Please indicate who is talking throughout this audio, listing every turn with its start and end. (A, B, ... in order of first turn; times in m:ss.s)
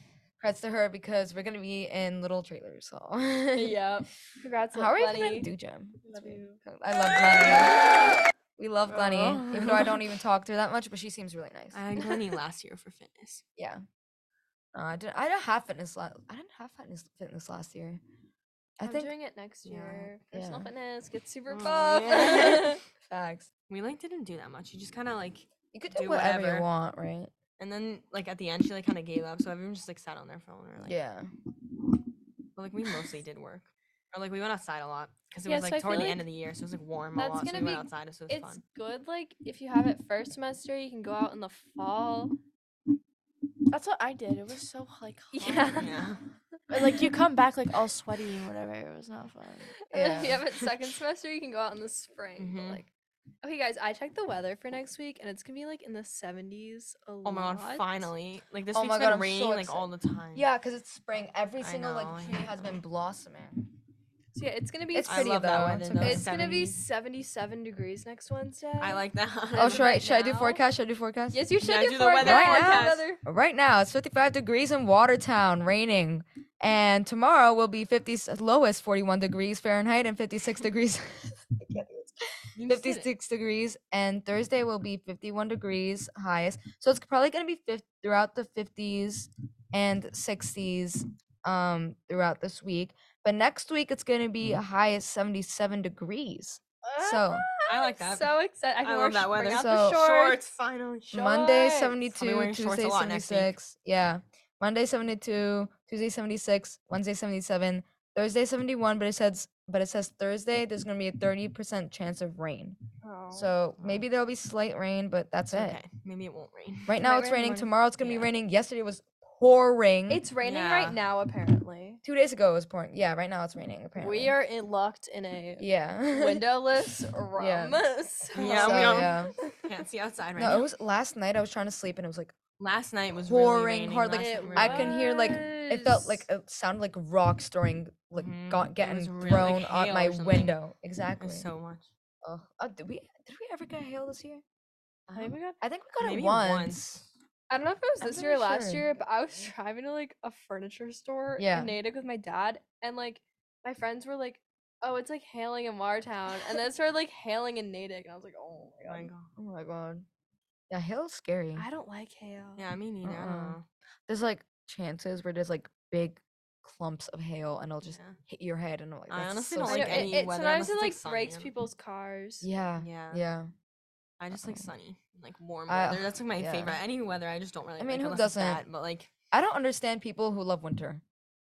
0:00.4-0:03.8 A
0:03.5-0:05.5 B
0:04.7-0:07.9 A
0:06.0-0:06.6 B
0:08.6-0:11.8 A
0:08.9-0:09.9 B
0:11.7-0:13.4 C
0:13.6-0:13.8 A
0:14.7-0:18.0 A
0:18.8-0:19.1 A
0:18.8-0:22.8 B
0:19.6-0:20.1 C
0:20.3-0:20.7 A
0:21.5-0:22.8 C
0:22.3-0:23.5 A
0:23.7-0:26.7 C
0:25.7-0:27.3 A
0:27.6-0:31.0 C
0:30.8-0:31.3 A
0:32.6-0:38.6 C
0:35.5-0:36.2 B
0:37.2-0:42.3 B
0:43.7-0:45.9 D
0:45.3-0:45.9 B
0:45.8-0:46.2 C
0:46.7-0:49.7 D
0:49.9-0:52.9 B
0:49.9-0:50.4 A
0:52.4-0:52.8 C
0:53.4-0:58.0 B
0:57.2-1:00.4 C
0:58.7-1:03.7 A
1:01.6-1:02.8 C
1:04.3-1:10.6 B
1:04.9-1:06.3 A
1:05.0-1:06.8 C
1:08.8-1:09.9 C
1:09.5-1:11.5 A
1:11.3-1:13.2 B
1:11.6-1:13.0 C
1:12.2-1:37.4 A
1:22.6-1:23.1 C
1:36.8-1:40.4 B
1:37.7-1:41.2 C
1:39.5-1:40.0 A
1:41.1-1:52.8 A
1:41.1-1:42.0 B
1:42.1-1:43.5 C
1:53.0-1:53.5 B
1:53.3-1:55.8 A
1:53.8-1:54.0 C
1:55.5-1:57.0 C
1:56.9-2:00.2 A
1:57.0-1:57.7 B
1:58.0-1:58.3 C
2:00.1-2:02.0 B
2:00.4-2:01.0 C
2:02.0-2:04.3 A
2:04.0-2:09.7 B
2:05.6-2:06.5 A
2:07.4-2:07.8 A
2:08.4-2:10.6 C
2:08.6-2:09.3 A
2:10.4-2:12.3 A
2:12.6-2:15.0 C
2:13.2-2:21.5 A
2:14.2-2:16.2 B
2:18.2-2:20.6 C
2:21.2-2:21.9 C
2:22.2-2:24.4 A
2:25.1-2:25.4 C
2:25.2-2:25.6 B
2:25.5-2:27.0 A
2:26.0-2:27.0 C
2:27.5-2:39.1 B
2:28.0-2:28.9 A
2:31.4-2:31.7 A
2:38.9-2:39.3 C
2:39.4-2:40.0 A
2:40.7-2:41.7 A
2:41.6-2:42.6 B
2:42.6-2:43.6 C
2:43.0-2:43.6 A
2:44.1-2:50.2 A
2:47.9-2:48.2 C
2:49.1-2:51.5 C
2:49.6-2:52.5 B
2:52.4-2:53.5 A
2:52.8-2:53.2 C
2:54.2-2:59.1 C
2:54.3-2:54.7 A
2:55.7-2:56.8 A
2:57.8-2:58.6 A
2:59.3-3:01.0 A